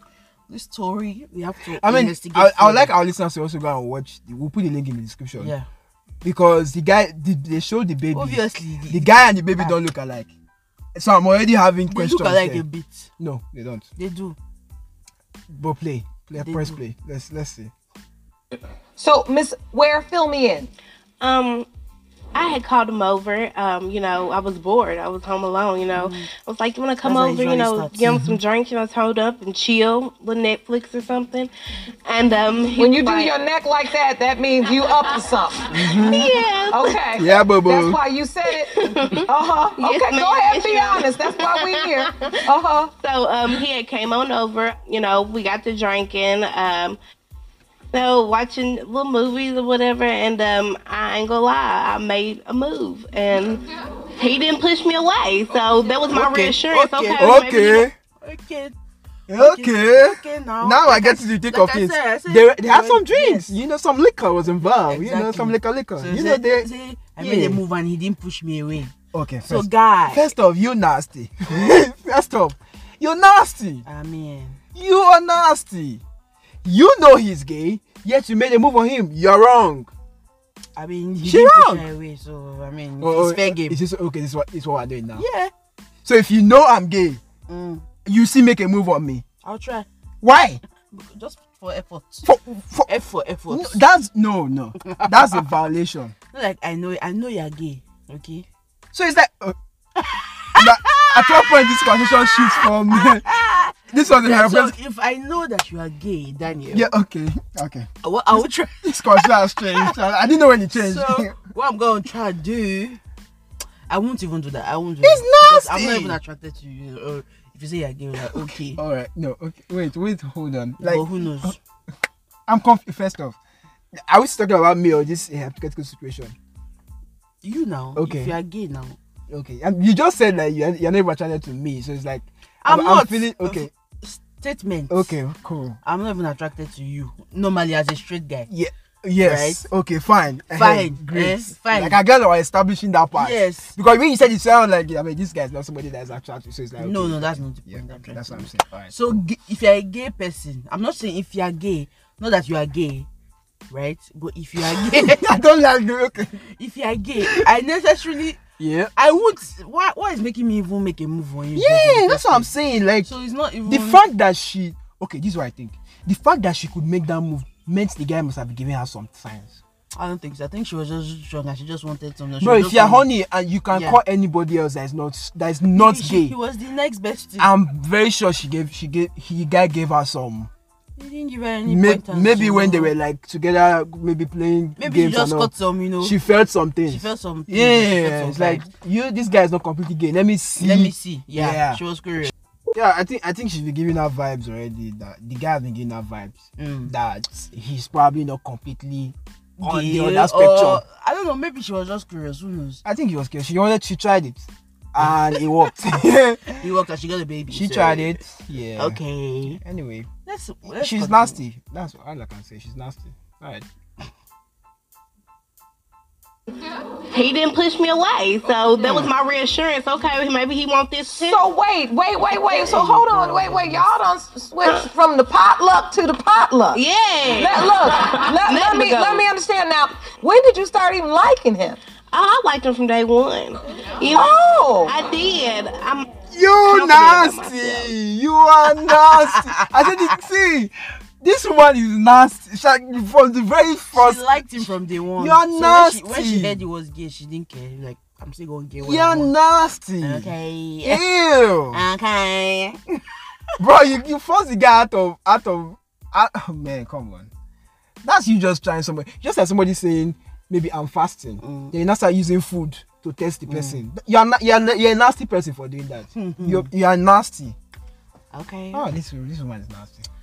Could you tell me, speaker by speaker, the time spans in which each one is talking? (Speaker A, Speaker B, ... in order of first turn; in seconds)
Speaker A: 0.5-2.9, 5.4-5.7, 8.1-9.8, 11.9-13.1, 14.0-14.4, 16.4-16.8, 25.9-26.3, 27.0-28.2, 56.1-57.4, 58.2-58.8, 59.4-63.5, 64.8-68.9, 69.4-70.3, 73.8-74.6, 80.8-83.8, 85.1-85.5, 87.5-87.8, 89.4-89.9, 90.9-93.8, 94.9-95.4, 96.3-98.5, 100.0-106.9, 108.0-110.0, 110.7-113.0, 113.9-118.8, 120.8-121.6, 127.4-129.0, 132.6-135.1, 135.8-138.5, 139.2-139.6, 140.5-142.0, 143.1-143.8, 146.8-153.1, 153.7-155.2, 156.4-158.4, 158.9-162.5, 163.0-164.0, 169.9-173.1, 173.7-174.0, 175.7-177.5, 181.0-182.9, 184.8-186.2, 186.9-188.7, 190.6-192.3, 196.6-196.9, 199.6-202.8, 205.0-205.5, 206.5-208.2, 208.8-209.6, 210.2-211.4, 222.6-223.9, 239.1-239.6, 243.9-249.3, 250.0-251.1, 251.7-253.0, 261.4-261.7, 263.5-263.8, 266.1-266.7, 268.3-268.9
Speaker B: 1.8-5.5, 6.2-10.3, 10.9-12.6, 13.2-13.9, 15.5-17.7, 35.7-36.3, 37.1-38.0, 57.2-58.0, 59.3-67.6, 69.1-73.8, 74.7-76.0, 76.6-79.9, 81.2-81.8, 83.0-85.2, 86.0-87.2, 88.0-89.2, 90.2-90.6, 92.2-92.9, 93.5-96.1, 98.9-99.6, 100.5-103.3, 103.9-104.7, 106.7-111.4, 115.0-116.2, 118.2-121.5, 122.5-123.4, 123.9-126.3, 127.9-128.3, 129.3-133.7, 134.9-135.8, 138.5-149.2, 154.6-156.4, 158.6-158.9, 161.5-163.1, 163.6-169.6, 172.4-176.3, 177.4-180.5, 181.6-200.8, 202.8-206.6, 207.5-210.1, 210.8-213.7, 236.3-246.6, 248.8-250.3, 250.8-251.8, 253.6-257.3, 258.0-267.6, 268.7-270.1
Speaker C: 19.0-20.7, 32.8-42.9, 221.1-231.8, 234.1-234.9
Speaker D: 21.2-21.7, 22.3-31.5, 32.0-33.3, 35.7-37.0, 38.5-42.4, 43.0-47.0, 47.9-53.6, 54.2-57.9, 217.1-221.4, 226.7-229.2, 232.1-236.1, 236.6-237.9